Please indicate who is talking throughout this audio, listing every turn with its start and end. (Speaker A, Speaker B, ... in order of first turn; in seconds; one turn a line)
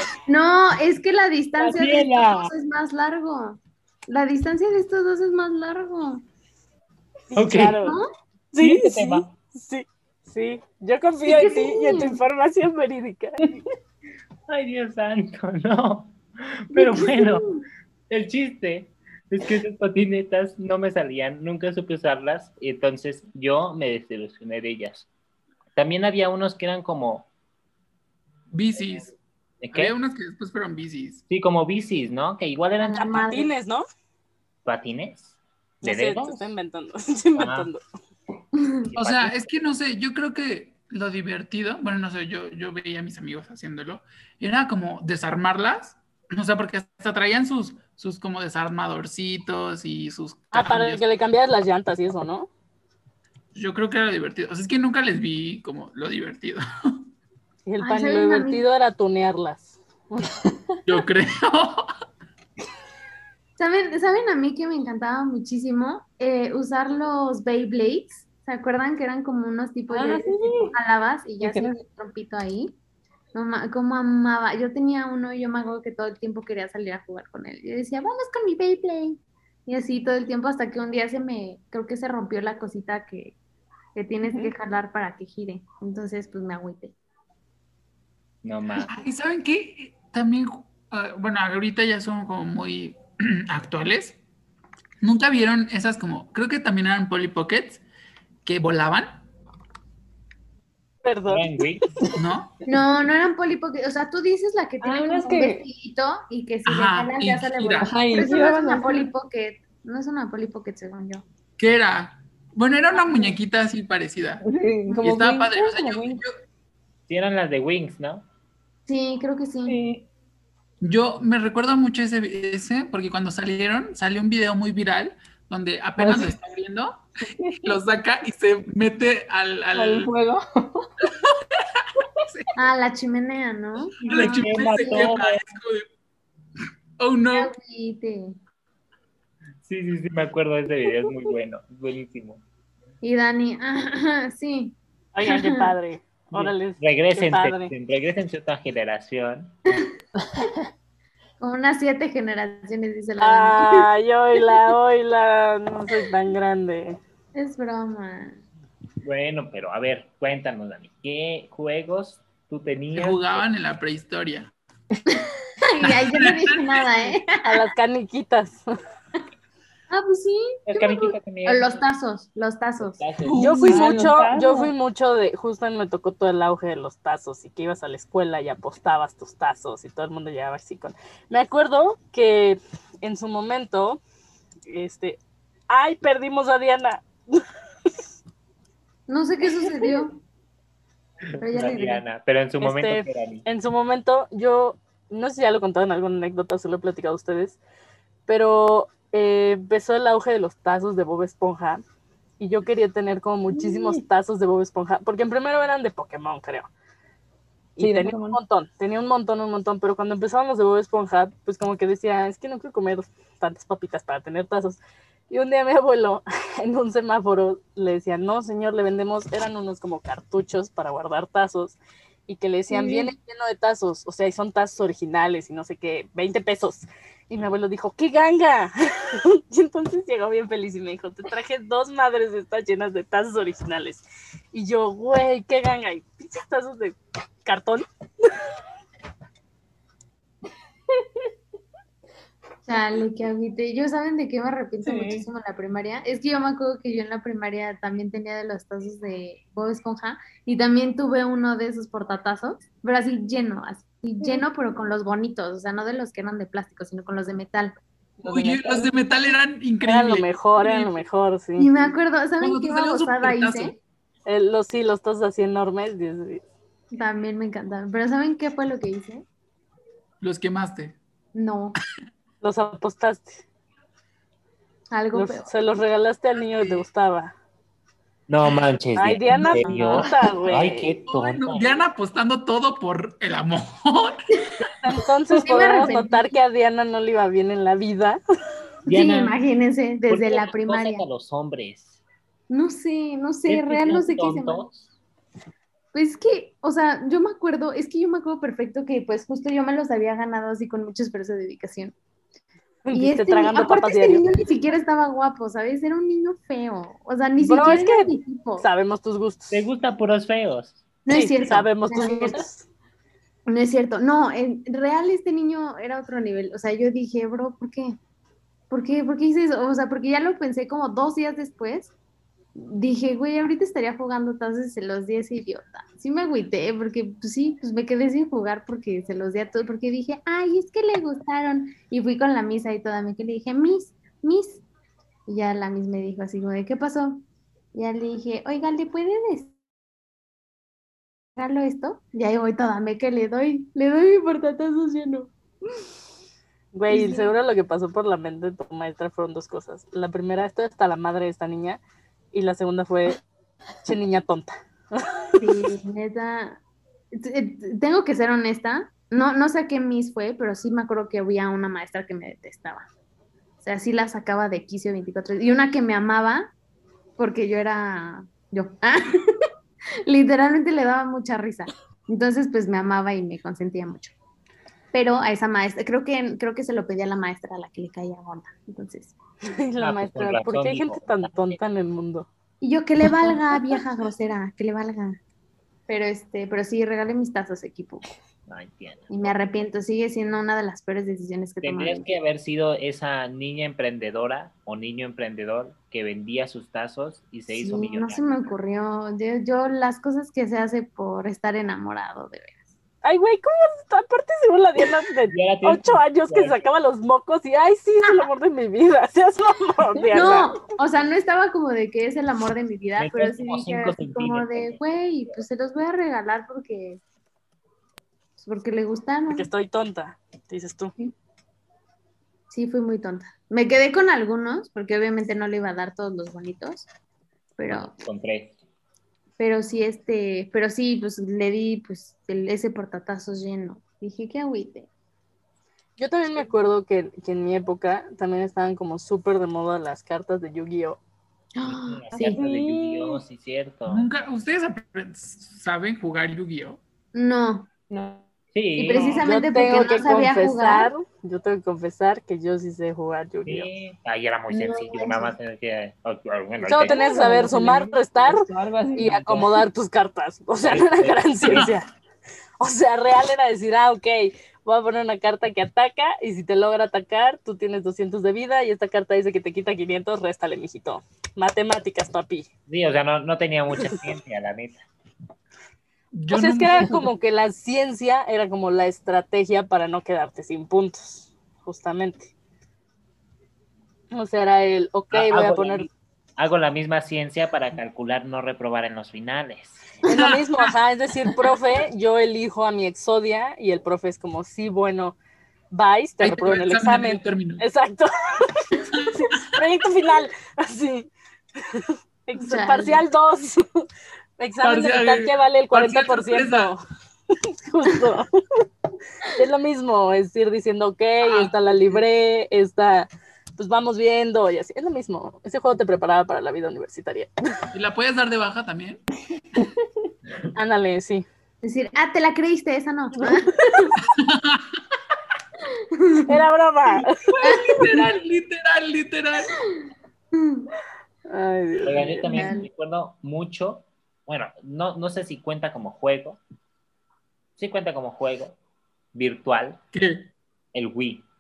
Speaker A: 0.3-6.2
Speaker B: 1.6-2.5
Speaker C: 7.3-8.0
Speaker B: 7.3-7.9
Speaker A: 7.8-8.1
Speaker C: 8.5-13.6
Speaker B: 8.6-9.3
Speaker A: 11.2-12.2
Speaker B: 14.5-17.5
Speaker A: 16.7-17.6
Speaker B: 18.1-25.1
Speaker B: 25.8-27.3
Speaker D: 28.5-29.1
Speaker B: 29.6-29.9
Speaker D: 29.7-31.2
Speaker B: 31.3-33.3
Speaker A: 32.8-33.5
Speaker C: 33.0-33.9
Speaker B: 34.6-36.5
Speaker C: 35.8-37.8
Speaker B: 37.4-37.7
Speaker A: 38.6-38.9
Speaker B: 38.9-39.4
Speaker D: 39.0-51.0
Speaker C: 50.5-52.5
Speaker D: 53.5-57.0
Speaker C: 57.7-60.3
Speaker A: 57.8-58.6
Speaker D: 60.9-61.9
Speaker A: 63.6-72.7
Speaker E: 69.9-70.8
Speaker E: 71.4-71.8
Speaker A: 73.3-83.4
Speaker A: 84.0-86.9
Speaker E: 84.2-84.5
Speaker B: 88.4-88.9
Speaker D: 88.9-94.2
Speaker D: 95.0-97.8
Speaker D: 98.5-99.2
Speaker C: 101.0-101.5
Speaker B: 101.3-101.8
Speaker D: 102.2-102.5
Speaker A: 102.7-111.2
Speaker E: 104.8-105.7
Speaker D: 106.7-107.9
Speaker E: 107.8-109.1
Speaker D: 111.6-114.4
Speaker E: 114.4-116.2
Speaker D: 115.0-116.3
Speaker B: 117.1-118.2
Speaker A: 118.9-119.8
Speaker E: 119.7-120.0
Speaker D: 120.8-127.1
Speaker E: 126.0-126.4
Speaker E: 127.3-127.8
Speaker D: 127.6-130.1
Speaker E: 129.7-130.9
Speaker D: 131.1-132.5
Speaker A: 132.6-135.1
Speaker D: 134.1-135.9
Speaker B: 134.1-135.4
Speaker D: 137.0-137.5
Speaker A: 137.3-138.4
Speaker B: 139.6-142.4
Speaker A: 143.0-144.8
Speaker C: 145.1-147.7
Speaker A: 145.3-145.7
Speaker B: 146.3-149.6
Speaker E: 150.2-150.6
Speaker A: 151.4-153.9
Speaker C: 153.2-157.0
Speaker A: 157.3-158.4
Speaker B: 159.0-163.4
Speaker D: 162.9-164.5
Speaker A: 165.1-167.6
Speaker D: 165.8-166.8
Speaker C: 167.4-168.7
Speaker A: 169.9-173.1
Speaker B: 170.7-171.8
Speaker B: 172.8-173.5
Speaker E: 173.2-174.7
Speaker C: 173.4-184.0
Speaker C: 184.7-185.2
Speaker C: 185.7-187.4
Speaker A: 189.1-190.2
Speaker A: 191.4-192.0
Speaker B: 191.4-193.5
Speaker C: 192.6-197.6
Speaker C: 198.3-201.8
Speaker C: 202.4-206.7
Speaker E: 203.5-204.0
Speaker C: 207.8-214.8
Speaker E: 207.8-208.4
Speaker C: 215.3-237.8
Speaker E: 222.7-223.1
Speaker A: 242.7-257.8
Speaker E: 244.8-245.3
Speaker E: 258.2-258.9
Speaker D: 258.2-261.0
Speaker C: 259.8-261.7
Speaker A: 261.6-263.8
Speaker D: 262.4-263.8
Speaker C: 264.3-266.4
Speaker A: 266.9-269.2
Speaker D: 270.2-271.0
Speaker A: 271.4-271.8
Speaker C: 272.4-273.4
Speaker A: 274.9-275.5
Speaker C: 275.1-277.3
Speaker B: 278.3-281.8
Speaker C: 279.0-280.9
Speaker D: 281.1-284.3
Speaker C: 284.6-288.2
Speaker A: 285.3-286.4
Speaker B: 288.9-289.4
Speaker A: 288.9-291.0
Speaker B: 290.1-292.0
Speaker A: 292.5-294.6
Speaker B: 293.5-294.8
Speaker A: 295.9-301.9
Speaker C: 302.9-304.2
Speaker A: 302.9-308.7
Speaker C: 307.4-309.6
Speaker B: 309.5-310.8
Speaker A: 311.1-312.4
Speaker C: 311.1-312.7
Speaker A: 313.5-318.0
Speaker A: 318.7-321.9
Speaker A: 322.6-334.6
Speaker A: 335.3-337.2
Speaker A: 337.8-339.6
Speaker A: 341.4-345.3
Speaker C: 346.7-351.8
Speaker A: 346.9-347.3
Speaker C: 352.3-353.2
Speaker C: 353.8-355.4
Speaker A: 355.4-356.6
Speaker A: 357.1-362.9
Speaker A: 363.6-366.5
Speaker A: 367.2-369.5
Speaker A: 370.1-374.1
Speaker A: 374.9-379.1
Speaker C: 379.4-382.3
Speaker B: 379.8-381.6
Speaker A: 382.6-385.2
Speaker A: 385.9-388.0
Speaker B: 388.5-389.1
Speaker A: 389.1-392.1
Speaker B: 391.6-398.5
Speaker A: 397.5-402.6
Speaker C: 403.0-410.5
Speaker B: 405.3-406.7
Speaker A: 410.1-417.0
Speaker B: 413.0-414.8
Speaker A: 418.4-419.5
Speaker C: 419.3-420.9
Speaker A: 422.5-426.9
Speaker A: 427.6-427.9
Speaker B: 427.7-428.6
Speaker A: 429.4-434.9
Speaker C: 436.0-441.0
Speaker A: 441.6-442.4
Speaker B: 441.6-444.1
Speaker E: 442.1-443.2
Speaker D: 443.9-446.8
Speaker A: 447.1-447.7
Speaker E: 447.9-448.2
Speaker B: 448.5-449.2
Speaker A: 448.8-450.9
Speaker C: 449.2-453.7
Speaker B: 453.4-457.0
Speaker E: 454.5-455.3
Speaker C: 456.6-461.9
Speaker E: 456.8-459.6
Speaker B: 460.6-461.7
Speaker C: 462.6-472.5
Speaker B: 472.7-474.8
Speaker D: 476.1-477.0
Speaker C: 476.3-482.3
Speaker C: 484.1-485.9
Speaker B: 485.1-489.9
Speaker C: 490.0-495.2
Speaker D: 490.1-490.7
Speaker C: 495.7-501.1
Speaker D: 496.2-497.6
Speaker D: 499.0-499.4
Speaker C: 501.6-503.9
Speaker A: 502.4-503.0
Speaker C: 504.4-506.8
Speaker D: 504.6-506.7
Speaker C: 507.4-508.4
Speaker C: 509.2-517.6
Speaker D: 511.2-511.6
Speaker D: 517.7-519.0
Speaker C: 520.5-521.3
Speaker A: 521.6-524.0
Speaker C: 523.3-523.9
Speaker D: 524.1-524.6
Speaker A: 525.9-526.4
Speaker C: 526.3-527.3
Speaker D: 527.4-529.6
Speaker A: 527.4-528.0
Speaker A: 530.3-530.7
Speaker C: 531.3-532.5
Speaker B: 531.8-536.4
Speaker A: 532.3-532.7
Speaker B: 537.6-538.6
Speaker B: 539.1-539.8
Speaker D: 539.9-540.3
Speaker B: 540.7-541.2